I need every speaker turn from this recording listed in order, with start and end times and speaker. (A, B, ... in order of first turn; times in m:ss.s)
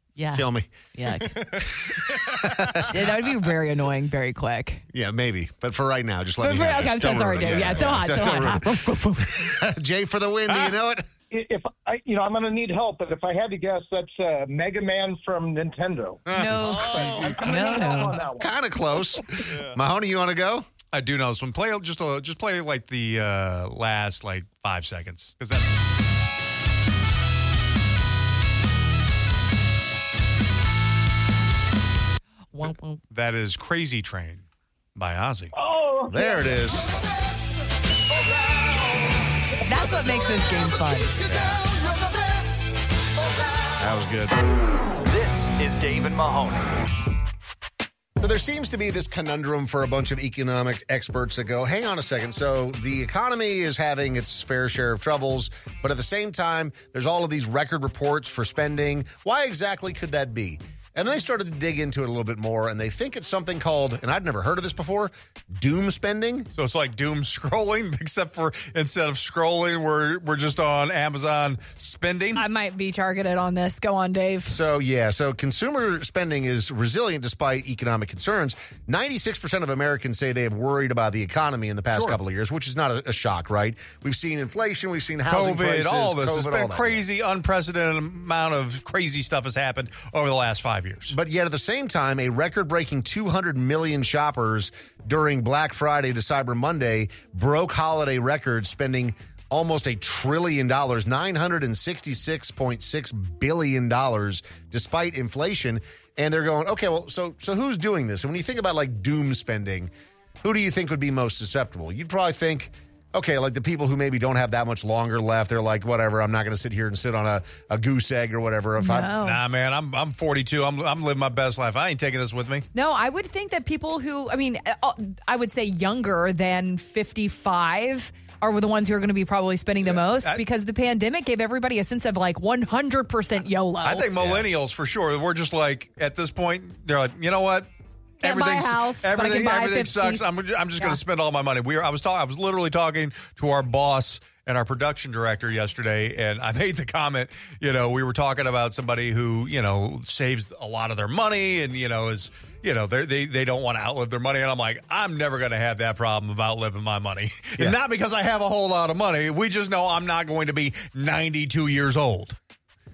0:00.2-0:01.4 A
0:00.3-0:00.7 B
0:01.2-0:02.4 C
0:01.8-0:02.9 B
0:02.9-0:04.8 A
0:04.9-0:11.1 B
0:06.4-0:09.5 A
0:11.3-0:18.5 D
0:16.3-0:20.7 B
0:16.3-0:18.2 A
0:17.0-0:17.3 C
0:20.9-0:25.9 E
0:32.5-0:33.0 A
0:33.1-0:34.4 E
0:35.0-0:35.5 E
0:35.6-0:36.6 D
0:36.1-0:36.9 B
0:39.7-0:41.1 A
0:43.8-0:44.4 B
0:45.1-0:46.7 C
0:48.2-1:06.5 B
1:06.5-1:12.4 E
1:12.4-1:14.5 A
1:14.5-1:27.0 B
1:25.3-1:31.2 E
1:31.1-1:49.9 B
1:50.4-1:59.1 B
1:58.8-1:59.4 A
1:59.2-2:02.6 E
2:02.7-2:14.1 A
2:09.9-2:10.4 E
2:13.8-2:17.7 E
2:18.2-2:42.4 E
2:18.2-2:20.3 A